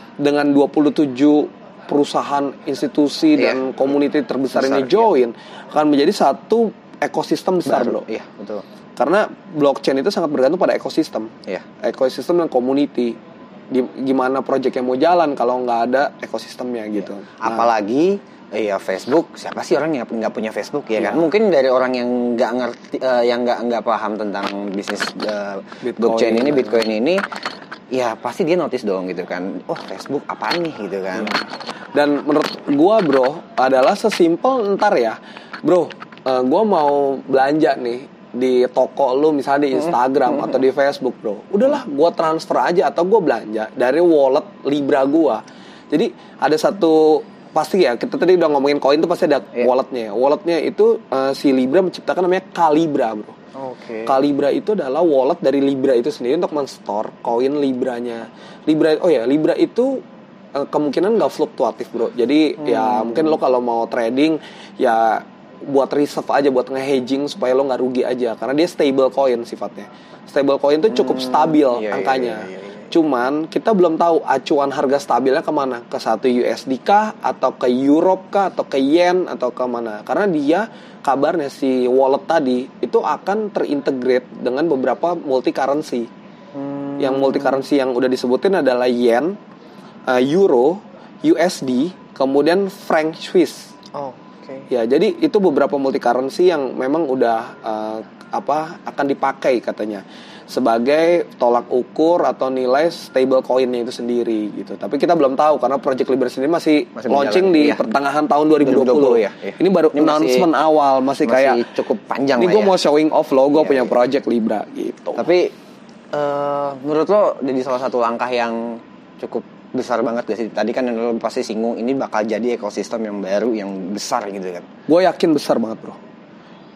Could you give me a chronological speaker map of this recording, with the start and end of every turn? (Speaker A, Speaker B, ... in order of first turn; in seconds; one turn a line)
Speaker A: 0.2-8.1
Speaker B: 4.5-5.1
Speaker B: 7.7-8.7
Speaker A: 9.0-13.2
Speaker A: 13.7-17.7
Speaker B: 17.0-27.2
Speaker A: 21.0-21.3
Speaker A: 25.8-26.9
Speaker B: 27.9-31.4
Speaker A: 31.9-53.4
Speaker B: 53.5-54.2
Speaker A: 54.1-60.0
Speaker A: 60.5-86.1
Speaker B: 62.6-63.4
Speaker B: 70.9-72.9
Speaker B: 86.5-87.6
Speaker A: 87.0-89.4
Speaker A: 90.1-93.8
Speaker B: 93.9-94.7
Speaker A: 94.7-111.6
Speaker B: 107.0-107.8
Speaker B: 108.6-110.5
Speaker B: 111.2-112.8
Speaker A: 112.4-115.3
Speaker B: 113.6-113.9
Speaker B: 115.2-115.5
Speaker B: 116.1-124.7
Speaker A: 124.9-126.0